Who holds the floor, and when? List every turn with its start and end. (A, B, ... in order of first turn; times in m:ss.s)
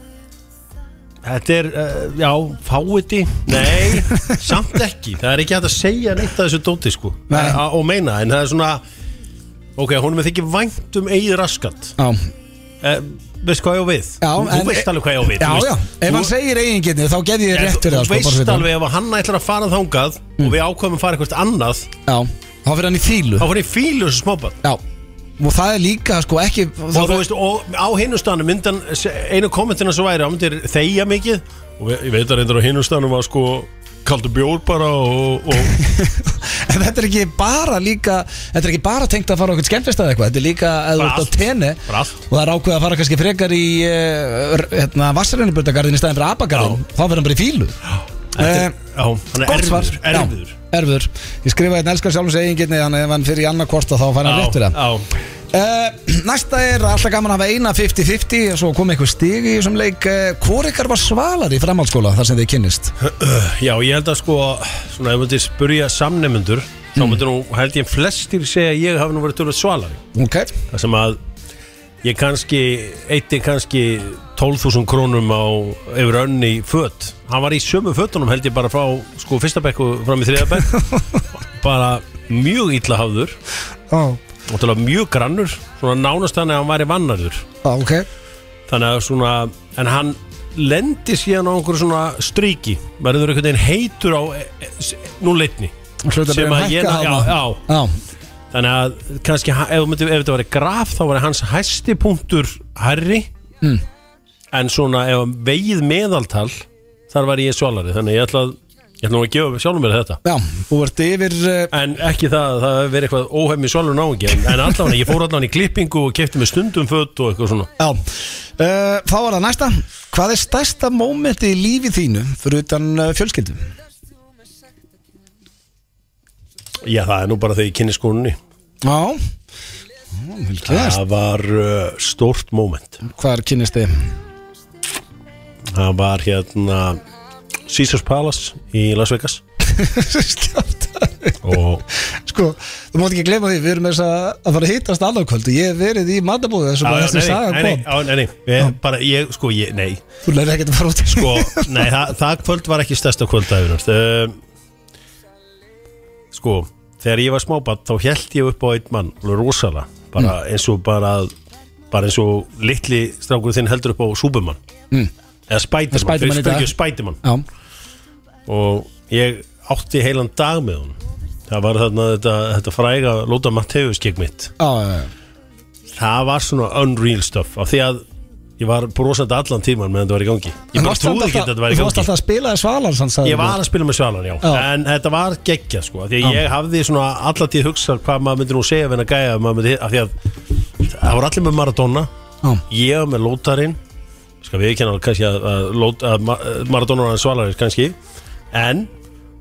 0:01.2-0:08.8 A
0:07.3-0:07.6 B
0:09.8-0:11.9 A
0:12.8-0:16.3 A
0:14.2-0:18.7 B
0:17.5-0:21.9 A
0:22.0-0:23.5 B
0:23.4-0:24.6 A
0:25.4-0:27.2 B
0:26.9-0:35.8 A
0:35.7-0:47.8 B
0:41.0-0:41.3 A
0:41.9-0:42.2 A
0:48.3-0:50.5 A
0:48.4-0:48.7 B
0:49.4-0:54.8 B
0:54.2-0:55.1 A
0:55.5-1:02.9 B
1:03.0-1:10.0 A
1:10.1-1:10.5 B
1:10.7-1:11.2 A
1:12.0-1:20.8 A
1:20.8-1:21.2 B
1:21.6-1:23.4 A
1:23.9-1:24.2 B
1:24.5-1:27.4 A
1:27.6-1:28.1 B
1:28.7-1:35.7 A
1:36.0-1:37.9 B
1:36.3-1:37.6 A
1:38.5-1:43.3 A
1:44.5-1:50.2 A
1:50.2-1:51.7 B
1:51.7-1:57.7 A
1:58.6-2:03.6 B
2:06.8-2:08.4 A
2:08.8-2:09.2 B
2:10.2-2:11.0 B
2:10.6-2:13.0 A
2:13.0-2:13.9 B
2:15.7-2:17.0 A
2:17.7-2:19.4 A
2:19.6-2:27.9 B
2:21.4-2:21.8 A
2:26.8-2:30.0 A
2:30.2-2:31.9 B
2:31.1-2:34.4 A
2:36.3-2:41.3 A
2:41.9-2:44.6 A
2:45.5-2:47.2 A
2:45.9-2:47.4 B
2:48.5-2:51.0 A
2:51.5-2:54.5 A
2:54.6-2:55.1 B
2:55.9-2:58.0 A
2:58.6-3:02.1 A
3:00.7-3:03.6 B
3:03.2-3:10.1 A
3:10.8-3:12.1 A
3:12.7-3:13.8 A
3:14.4-3:18.0 A
3:18.5-3:18.9 A